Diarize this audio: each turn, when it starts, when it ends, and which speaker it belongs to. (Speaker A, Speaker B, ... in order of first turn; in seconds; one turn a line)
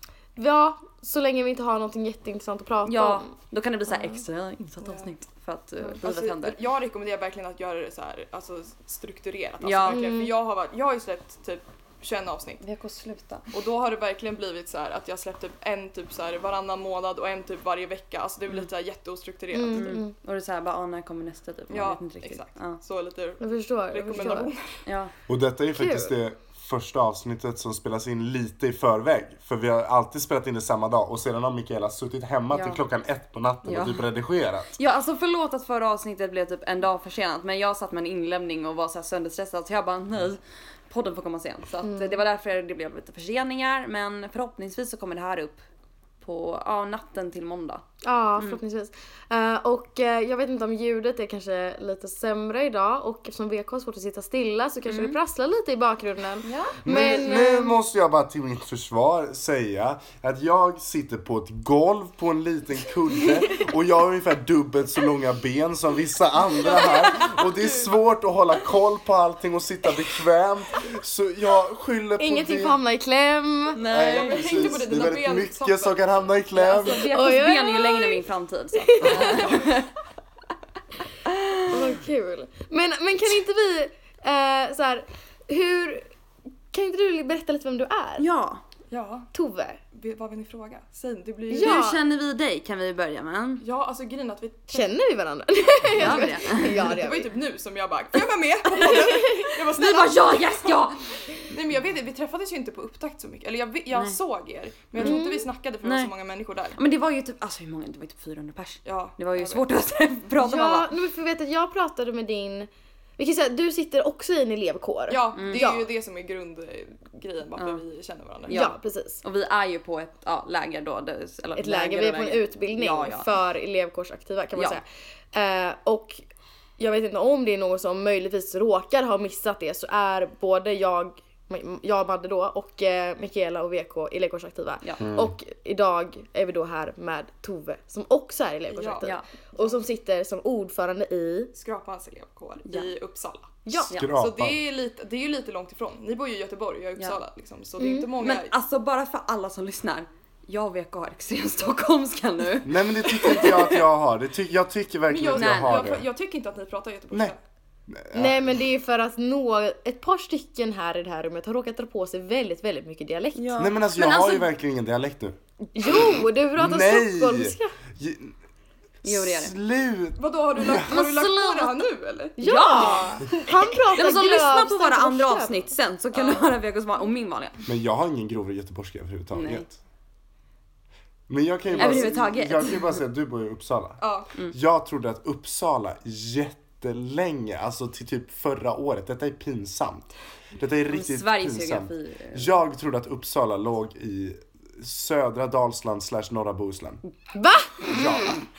Speaker A: 0.4-3.3
Speaker B: 2.8-6.6
Speaker C: 4.8-5.1
Speaker C: 5.8-12.6
Speaker B: 9.6-10.1
Speaker A: 9.9-10.3
Speaker B: 12.6-13.5
Speaker C: 13.5-20.0
Speaker A: 19.5-20.1
Speaker B: 19.7-22.8
Speaker C: 21.7-24.8
Speaker A: 23.4-24.5
Speaker B: 24.9-25.1
Speaker D: 25.3-34.7
Speaker A: 25.8-26.1
Speaker B: 32.5-32.8
Speaker B: 33.6-34.0
Speaker B: 34.8-45.6
Speaker A: 41.8-42.2
Speaker B: 46.2-47.8
Speaker A: 48.0-57.8
Speaker B: 54.9-55.2
Speaker B: 56.4-57.4
Speaker D: 56.8-72.8
Speaker A: 63.2-63.5
Speaker C: 66.7-67.9
Speaker A: 72.2-73.8
Speaker B: 73.7-74.8
Speaker D: 73.9-77.1
Speaker C: 74.0-76.3
Speaker B: 76.5-79.9
Speaker A: 76.8-78.2
Speaker A: 78.8-79.8
Speaker B: 81.2-82.0
Speaker A: 81.7-86.1
Speaker A: 86.7-88.3
Speaker B: 88.2-88.6
Speaker C: 88.9-89.3
Speaker A: 89.3-89.8
Speaker C: 89.9-91.9
Speaker A: 91.5-92.0
Speaker B: 91.5-93.6
Speaker C: 93.6-94.9
Speaker A: 94.7-97.3
Speaker B: 95.9-96.9
Speaker C: 96.0-106.8
Speaker A: 98.7-99.5
Speaker B: 98.7-101.3
Speaker B: 105.0-105.2
Speaker A: 105.0-105.5
Speaker B: 105.8-106.1
Speaker B: 106.8-110.9
Speaker C: 108.8-109.7
Speaker A: 110.4-115.9
Speaker C: 115.1-118.6
Speaker B: 115.3-115.7
Speaker B: 118.5-123.3
Speaker A: 118.5-119.2
Speaker A: 121.6-126.2
Speaker B: 124.5-124.8
Speaker A: 126.8-141.5
Speaker D: 135.0-135.3
Speaker C: 138.7-139.7
Speaker C: 141.5-143.6
Speaker B: 142.7-142.9
Speaker A: 143.7-143.9
Speaker D: 143.9-144.6
Speaker C: 144.2-148.5
Speaker A: 147.8-148.1
Speaker B: 148.2-153.8
Speaker D: 152.6-156.1
Speaker C: 155.1-157.4
Speaker B: 155.3-155.8
Speaker D: 157.9-158.6
Speaker A: 158.1-163.7
Speaker B: 163.3-164.5
Speaker D: 163.6-165.4
Speaker A: 165.8-167.7
Speaker D: 166.6-168.3
Speaker B: 169.0-169.6
Speaker D: 169.0-170.9
Speaker C: 170.2-172.4
Speaker B: 170.9-171.8
Speaker A: 172.4-175.7
Speaker B: 172.4-173.3
Speaker B: 173.9-177.6
Speaker C: 176.1-176.5
Speaker D: 177.7-179.8
Speaker B: 179.3-179.7
Speaker D: 181.3-184.0
Speaker B: 181.7-183.0
Speaker C: 184.0-184.3
Speaker D: 184.5-197.0
Speaker B: 190.9-192.5
Speaker A: 197.3-198.3
Speaker D: 197.8-198.4